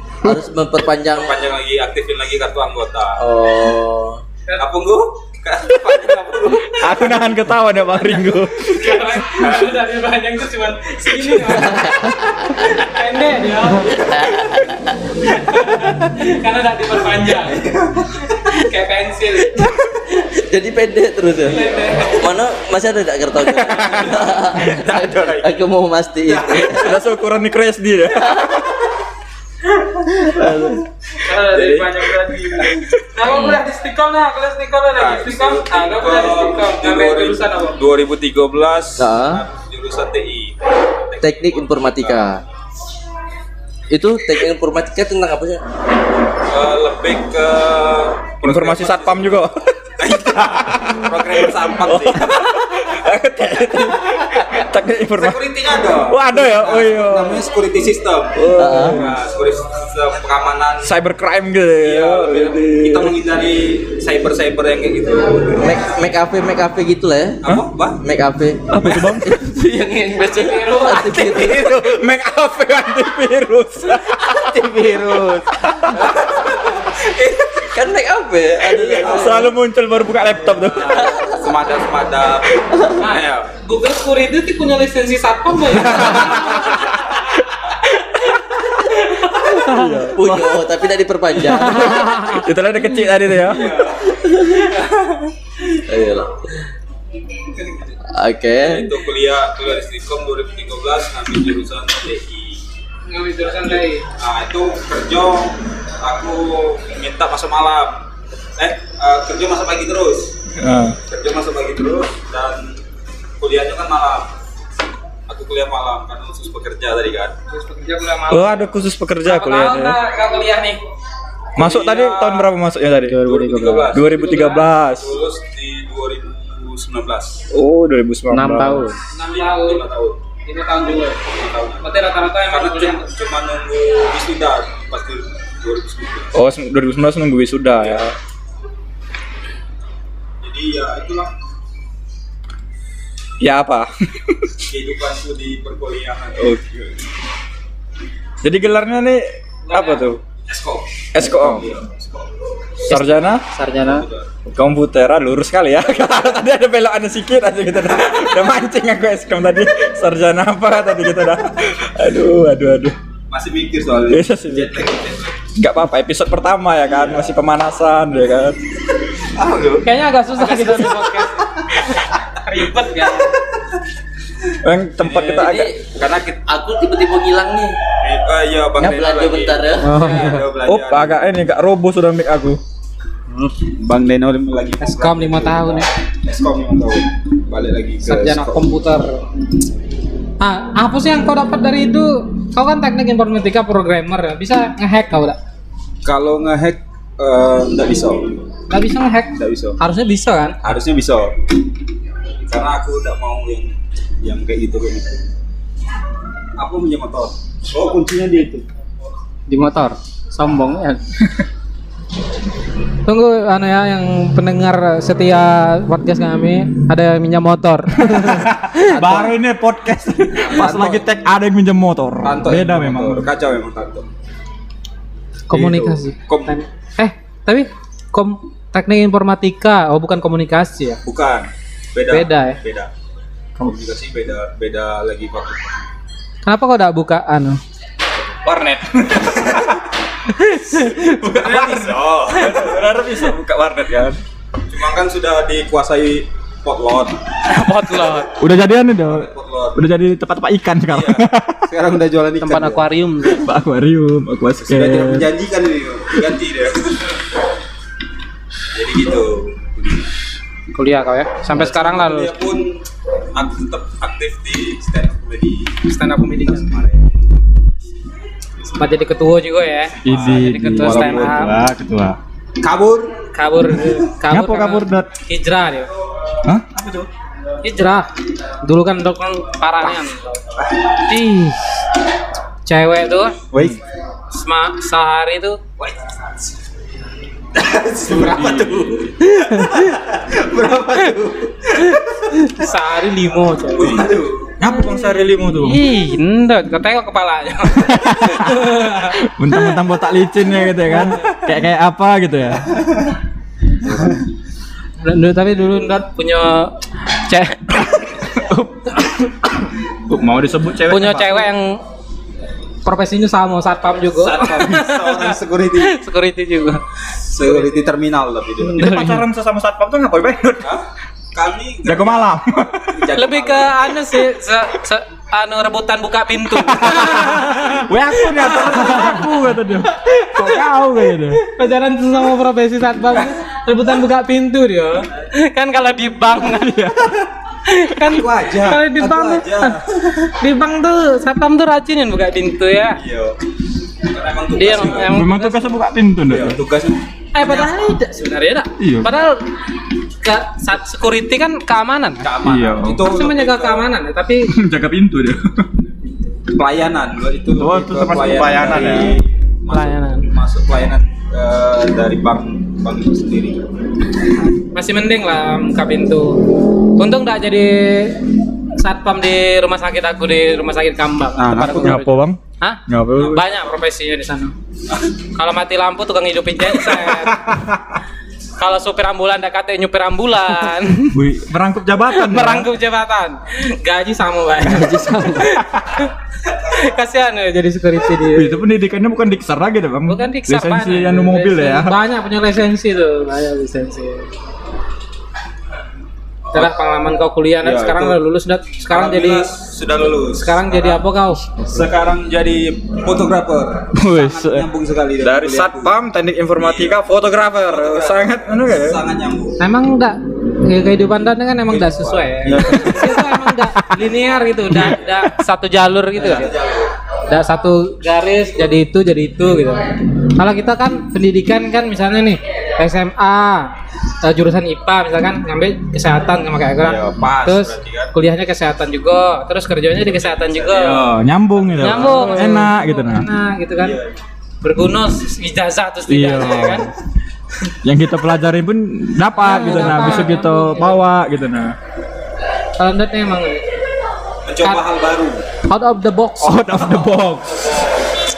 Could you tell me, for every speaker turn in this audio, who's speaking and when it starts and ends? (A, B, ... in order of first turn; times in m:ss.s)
0:00.2-0:01.3 A
0:01.1-0:03.2 B
0:03.2-0:04.2 A
0:04.6-0:07.2 B
0:06.6-0:08.9 C
0:08.0-0:08.5 B
0:08.7-0:14.2 D
0:09.3-0:09.6 B
0:11.4-0:12.7 A
0:13.9-0:15.0 A
0:15.2-0:17.7 D
0:17.5-0:18.2 B
0:18.3-0:20.1 D
0:20.3-0:27.0 A
0:21.5-0:22.2 D
0:23.7-0:25.7 B
0:26.3-0:26.9 B
0:26.7-0:28.8 C
0:28.2-0:28.5 A
0:30.0-0:30.9 A
0:31.2-0:37.8 D
0:31.4-0:32.7 B
0:33.2-0:33.6 A
0:35.0-0:42.2 B
0:39.0-0:39.4 A
0:41.2-0:42.4 A
0:43.9-0:45.6 A
0:46.5-0:49.4 B
0:48.4-0:49.6 C
0:50.0-0:52.5 B
0:50.5-0:55.5 C
0:55.2-1:00.9 B
0:56.1-0:57.5 C
0:58.3-0:59.2 C
0:58.6-0:59.0 A
1:00.8-1:03.1 C
1:01.8-1:05.8 B
1:05.5-1:12.0 A
1:07.4-1:08.0 B
1:08.7-1:09.6 C
1:10.2-1:11.5 D
1:11.2-1:14.6 C
1:14.1-1:16.0 A
1:14.6-1:15.4 B
1:15.6-1:16.1 C
1:15.9-1:17.7 B
1:17.6-1:19.5 A
1:18.6-1:19.5 B
1:19.0-1:21.2 C
1:20.9-1:21.5 A
1:21.0-1:23.5 B
1:23.0-1:27.4 D
1:26.0-1:27.2 C
1:28.3-1:30.0 D
1:29.6-1:30.6 C
1:30.0-1:32.2 A
1:31.7-1:32.4 D
1:31.7-1:33.8 C
1:33.4-1:34.7 B
1:34.1-1:34.7 A
1:35.6-1:36.6 A
1:38.1-1:38.9 A
1:38.6-1:42.7 B
1:43.1-1:44.1 D
1:43.4-1:48.0 B
1:48.6-1:50.4 B
1:50.6-1:51.0 C
1:51.0-1:52.8 B
1:53.4-1:54.3 B
1:55.3-1:57.4 B
1:57.5-1:58.7 D
1:58.3-2:00.0 C
1:59.2-2:00.8 D
2:01.6-2:03.3 C
2:01.6-2:02.5 B
2:03.1-2:03.9 E
2:03.2-2:07.4 B
2:03.9-2:05.2 C
2:04.1-2:04.7 D
2:07.5-2:09.0 C
2:08.3-2:09.0 E
2:09.1-2:09.8 D
2:09.3-2:10.2 B
2:10.5-2:11.2 D
2:11.3-2:16.4 B
2:11.8-2:13.1 D
2:16.3-2:18.2 C
2:17.8-2:18.0 B
2:20.4-2:21.3 B
2:23.4-2:24.6 C
2:24.7-2:26.6 B
2:26.4-2:26.9 C
2:28.4-2:30.2 C
2:29.7-2:30.1 D
2:30.5-2:33.0 B
2:31.1-2:31.8 C
2:32.9-2:33.4 C
2:33.5-2:34.1 E
2:33.8-2:34.3 B
2:34.5-2:43.0 C
2:43.3-2:45.4 B
2:44.1-2:44.8 C
2:45.6-2:48.6 C
2:49.3-2:49.9 B
2:49.8-2:53.4 D
2:50.5-2:50.8 B
2:54.6-2:55.7 C
2:55.0-2:56.4 B
2:55.3-2:55.8 A
2:56.5-2:57.8 A
2:58.0-3:01.2 B
2:58.8-2:59.9 A
2:59.8-3:00.4 E
2:59.9-3:00.4 D
3:00.6-3:02.6 C
3:03.8-3:08.7 B
3:04.8-3:05.9 D
3:08.0-3:09.2 D
3:10.4-3:15.4 D
3:16.0-3:18.4 B
3:18.7-3:20.6 D
3:19.4-3:19.8 B
3:20.6-3:21.4 B
3:22.5-3:25.3 B
3:26.6-3:28.6 B
3:29.5-3:31.0 E
3:33.1-3:39.3 D
3:38.0-3:43.3 C
3:40.4-3:41.1 B
3:42.2-3:44.1 B
3:45.5-3:51.0 D
3:45.5-3:46.6 B
3:51.0-3:52.9 B
3:52.1-3:52.6 D
3:53.6-3:55.8 B
3:56.4-3:57.6 D
3:58.4-3:59.8 C
4:00.4-4:01.2 D
4:00.7-4:04.2 C
4:01.2-4:02.9 B
4:04.7-4:07.2 B
4:07.5-4:08.4 D
4:08.3-4:11.7 C
4:09.1-4:09.8 B
4:10.9-4:12.9 B
4:12.4-4:13.5 D
4:13.2-4:15.3 C
4:14.6-4:17.2 B
4:18.7-4:20.1 B
4:20.7-4:22.3 D
4:21.5-4:22.8 B
4:23.3-4:25.8 B
4:25.8-4:26.7 D
4:26.4-4:27.2 B
4:28.7-4:31.6 D
4:30.0-4:32.2 C
4:30.0-4:31.6 B
4:32.6-4:33.2 B
4:33.3-4:35.9 D
4:34.3-4:35.1 C
4:36.4-4:37.1 C
4:37.6-4:38.1 D
4:38.6-4:40.4 D
4:41.0-4:41.6 D
4:42.7-4:43.4 D
4:43.5-4:43.8 C
4:44.3-4:45.6 D
4:47.5-4:52.0 B
4:48.1-4:49.0 C
4:49.4-4:50.0 D
4:51.8-4:54.1 D
4:53.7-4:54.6 B
4:54.6-4:55.8 C
4:54.7-4:59.6 D
4:57.7-5:02.8 C
5:00.9-5:01.4 D
5:05.0-5:09.1 D
5:08.3-5:09.3 C
5:10.1-5:11.5 C
5:10.9-5:11.8 D
5:12.8-5:16.8 D
5:14.1-5:16.0 B
5:17.3-5:18.9 B
5:18.7-5:19.2 D
5:18.8-5:20.8 C
5:20.6-5:23.8 B
5:21.8-5:23.0 C
5:23.2-5:30.7 D
5:26.6-5:31.4 C
5:31.3-5:36.9 D
5:36.6-5:37.3 C
5:37.7-5:43.0 D
5:38.1-5:39.9 B
5:43.0-5:43.4 B
5:44.0-5:45.2 B
5:44.6-5:45.8 D
5:45.0-5:46.6 C
5:46.3-5:47.7 B
5:47.3-5:49.5 D
5:48.8-5:49.1 C
5:50.2-5:52.3 D
5:52.2-5:53.9 B
5:52.4-5:53.1 C
5:53.0-5:54.5 D
5:54.5-5:55.8 C
5:56.5-6:03.7 B
5:57.6-5:59.2 C
5:59.7-6:00.3 D
6:04.7-6:08.2 D
6:08.8-6:14.5 D
6:11.4-6:12.0 B
6:11.6-6:13.4 C
6:15.3-6:17.6 D
6:17.0-6:18.0 C
6:18.6-6:21.2 D
6:21.1-6:22.7 C
6:22.1-6:28.6 D
6:24.6-6:25.5 E
6:28.3-6:32.0 C
6:30.1-6:34.3 D
6:36.5-6:39.5 D
6:37.6-6:38.2 B
6:38.9-6:41.0 B
6:40.1-6:41.4 D
6:41.6-6:46.0 B
6:43.9-6:44.7 C
6:45.2-6:49.0 C
6:46.6-6:47.0 B
6:47.6-6:49.6 B
6:49.6-6:56.5 D
6:51.7-6:53.2 B
6:52.6-6:53.0 C
6:54.7-6:55.0 C
6:56.2-6:56.9 B
6:57.3-7:11.0 D
7:06.8-7:08.1 B
7:10.0-7:12.4 B
7:10.8-7:13.3 C
7:11.8-7:14.0 D
7:13.8-7:14.2 B
7:14.6-7:16.9 D
7:16.1-7:16.9 C
7:17.8-7:21.8 C
7:19.3-7:21.0 D
7:22.8-7:23.6 D
7:24.4-7:25.4 B
7:25.7-7:27.0 D
7:26.4-7:27.6 C